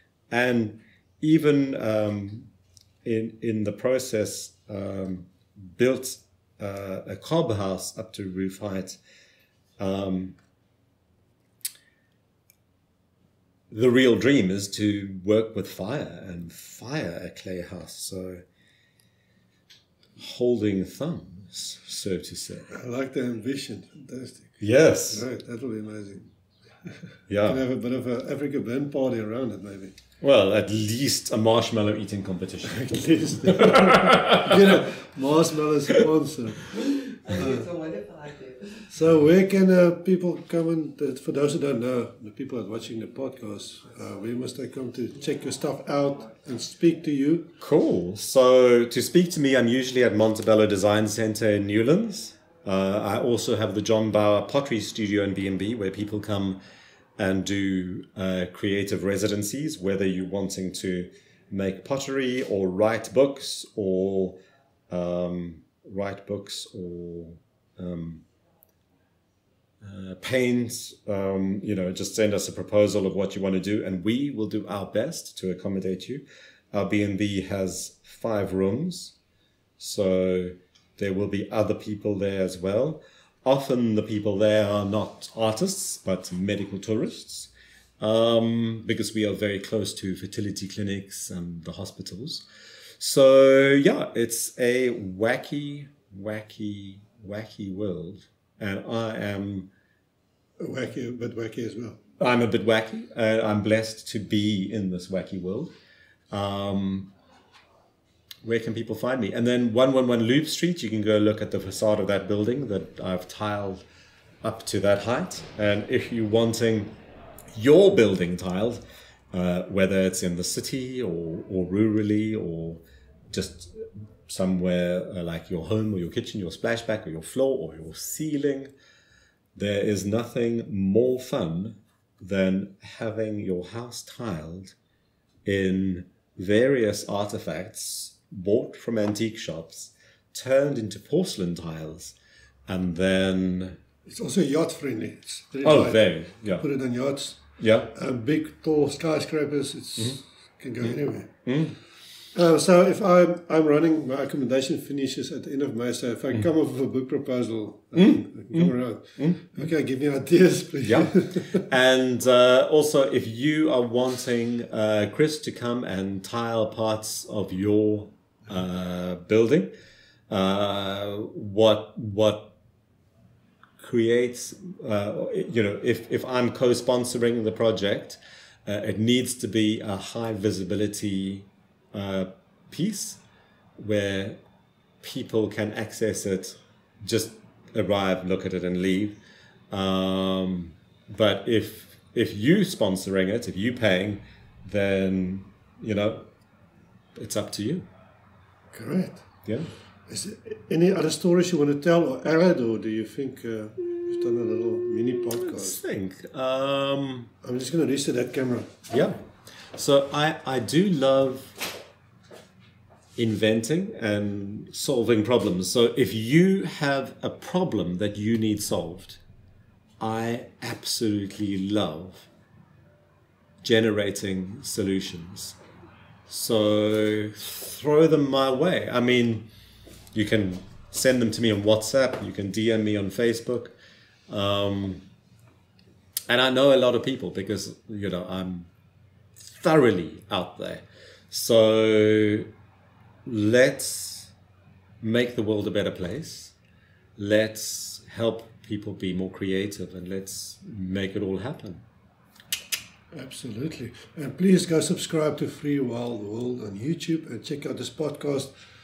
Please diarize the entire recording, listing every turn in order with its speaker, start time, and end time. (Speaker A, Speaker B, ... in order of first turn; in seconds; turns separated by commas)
Speaker A: 0.3-2.5, Speaker A: 3.0-9.0, Speaker A: 9.8-10.4, Speaker A: 13.7-18.4, Speaker A: 20.2-22.7, Speaker B: 22.7-26.3, Speaker A: 24.6-25.3, Speaker A: 27.3-27.6, Speaker B: 27.4-29.9, Speaker A: 30.2-34.8, Speaker B: 32.7-38.0, Speaker B: 38.8-47.5, Speaker A: 47.6-56.6, Speaker A: 57.2-64.4, Speaker A: 64.9-68.2, Speaker A: 69.8-79.2, Speaker A: 79.8-92.4, Speaker A: 93.0-99.7, Speaker B: 100.6-102.0, Speaker A: 102.2-105.7, Speaker A: 106.3-107.1, Speaker A: 108.4-113.8, Speaker A: 114.4-116.9, Speaker A: 117.5-118.8, Speaker A: 119.3-128.7, Speaker A: 129.6-134.8, Speaker A: 135.4-142.2, Speaker A: 142.7-143.8, Speaker B: 144.1-146.0, Speaker A: 145.6-146.7, Speaker B: 146.6-151.3, Speaker A: 147.6-147.9, Speaker A: 150.8-151.8, Speaker B: 152.3-161.6, Speaker A: 158.0-159.4, Speaker A: 160.8-169.7, Speaker A: 170.3-172.6, Speaker A: 173.8-183.2, Speaker A: 183.8-184.4, Speaker A: 185.0-189.2, Speaker A: 189.7-196.3, Speaker A: 197.2-197.9, Speaker B: 198.7-199.3, Speaker B: 200.1-205.8, Speaker A: 205.4-207.3, Speaker B: 207.4-208.7, Speaker A: 208.9-209.2, Speaker A: 209.7-211.7, Speaker A: 213.2-219.2, Speaker A: 220.0-222.3, Speaker A: 223.6-225.6, Speaker A: 226.3-229.5, Speaker A: 230.1-233.8, Speaker A: 234.3-235.1, Speaker A: 236.3-238.7, Speaker A: 239.4-242.5, Speaker A: 243.2-244.3, Speaker A: 245.0-246.6, Speaker A: 247.2-251.8, Speaker B: 253.1-258.5